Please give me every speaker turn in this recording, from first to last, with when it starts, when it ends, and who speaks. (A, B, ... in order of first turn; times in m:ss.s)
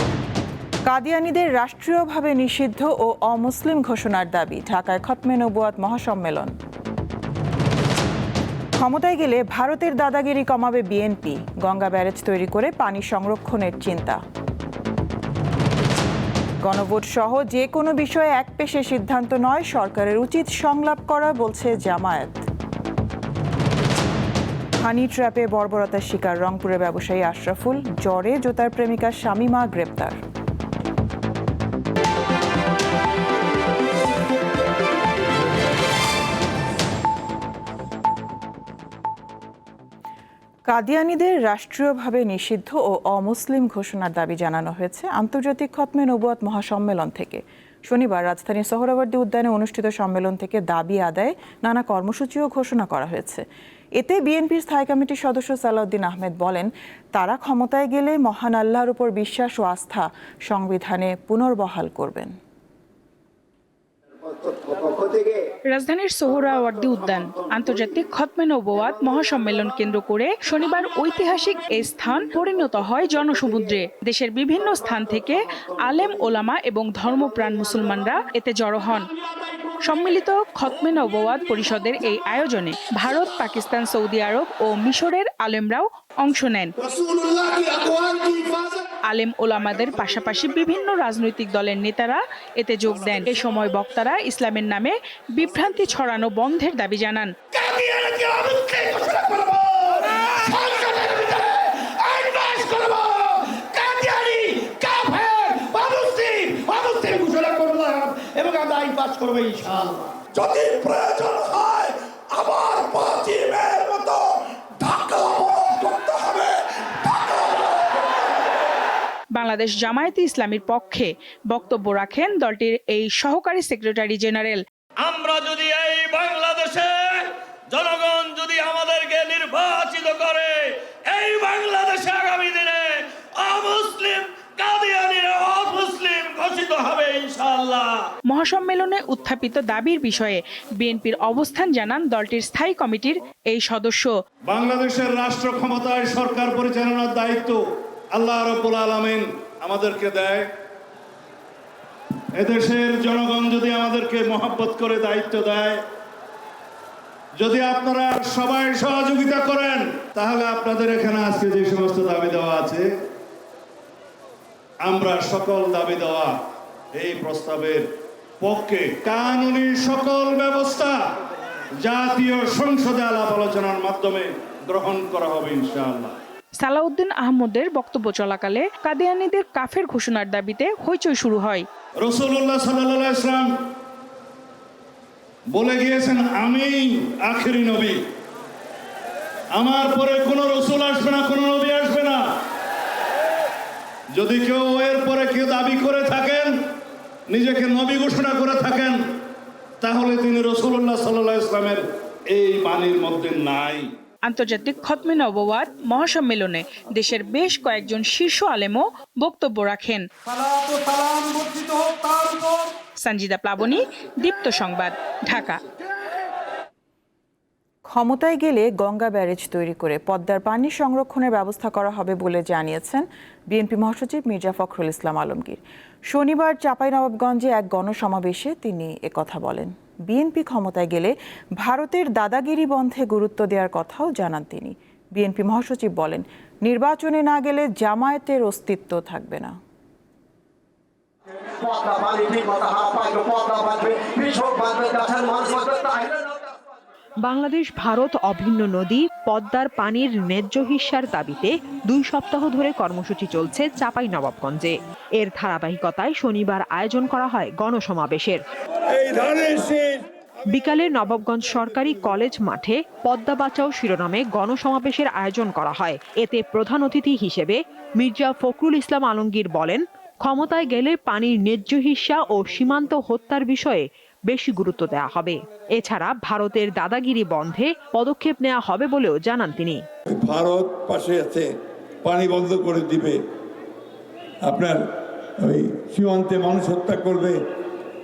0:00.9-0:06.5 A
0:08.8-0:14.2 A
0:16.6-0:22.5 A
0:24.8-0:30.2 A
0:40.7-0:53.4 A
0:54.0-1:02.3 A
1:05.7-1:19.1 B
1:19.8-1:26.7 B
1:29.0-1:37.3 B
1:47.4-1:49.9 C
1:50.6-1:51.2 D
1:59.3-2:04.6 B
2:05.0-2:18.0 E
2:18.3-2:24.1 B
2:24.5-2:27.6 F
2:28.2-2:30.5 F
2:32.4-2:35.8 F
2:37.4-2:42.9 F
2:44.8-2:46.4 F
2:47.0-2:47.8 F
2:48.4-2:51.0 F
2:51.8-2:56.1 F
2:56.6-3:01.6 B
3:02.0-3:03.5 F
3:05.5-3:08.0 F
3:09.6-3:12.2 F
3:14.2-3:16.5 F
3:17.3-3:19.0 F
3:19.8-3:23.9 F
3:24.2-3:30.1 B
3:33.0-3:35.6 B
3:37.9-3:59.6 A
4:01.6-4:06.4 G
4:07.2-4:18.4 H
4:18.9-4:20.0 D
4:20.5-4:39.8 H
4:40.1-4:41.5 D
4:42.0-4:43.2 D
4:44.4-4:47.4 D